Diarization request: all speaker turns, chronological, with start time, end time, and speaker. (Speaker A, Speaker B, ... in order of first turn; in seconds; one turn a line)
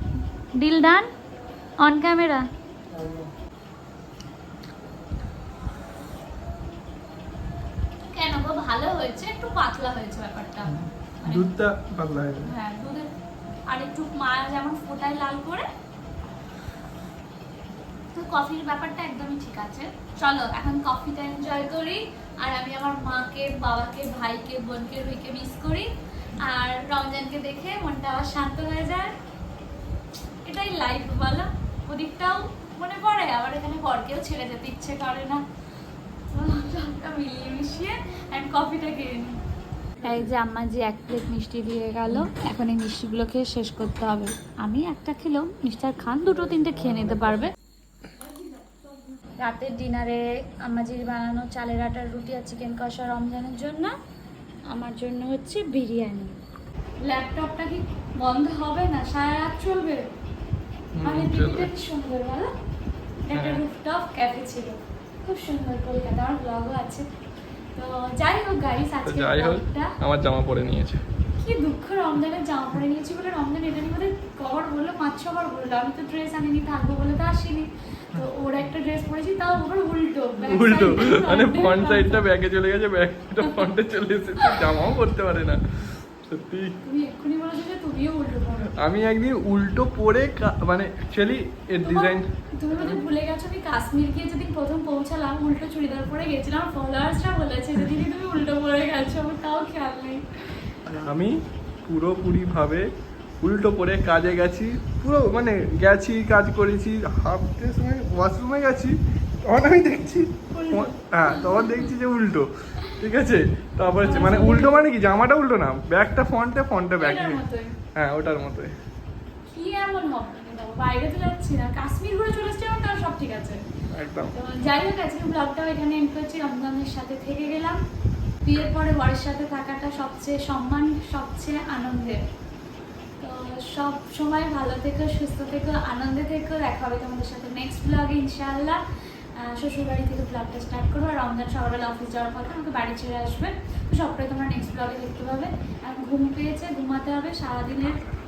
Speaker A: 0.6-1.1
Speaker A: 1.8-2.5
Speaker B: 2.9-3.3
Speaker A: 8.0-11.5
Speaker B: 10.7-12.5
Speaker A: 12.4-13.1
Speaker A: 13.7-15.7
Speaker A: 18.1-29.1
Speaker A: 30.4-35.4
Speaker A: 36.3-39.4
Speaker B: 40.0-40.3
Speaker A: 40.0-47.5
Speaker B: 46.7-47.4
Speaker A: 49.4-54.0
Speaker A: 54.7-56.4
Speaker A: 57.0-60.1
Speaker B: 60.9-61.7
Speaker A: 61.0-62.5
Speaker A: 63.2-67.1
Speaker B: 63.3-63.6
Speaker A: 67.8-70.0
Speaker B: 69.0-71.0
Speaker A: 71.4-82.2
Speaker B: 80.4-86.8
Speaker A: 86.8-88.7
Speaker B: 88.8-93.0
Speaker A: 91.8-100.7
Speaker B: 100.9-102.9
Speaker B: 103.4-117.4
Speaker A: 110.5-111.9
Speaker A: 114.0-114.8
Speaker A: 117.0-117.8
Speaker B: 118.0-118.7
Speaker A: 119.5-123.6
Speaker B: 123.9-124.3
Speaker A: 124.3-127.8
Speaker A: 128.4-132.2
Speaker A: 133.2-138.8
Speaker A: 139.4-148.0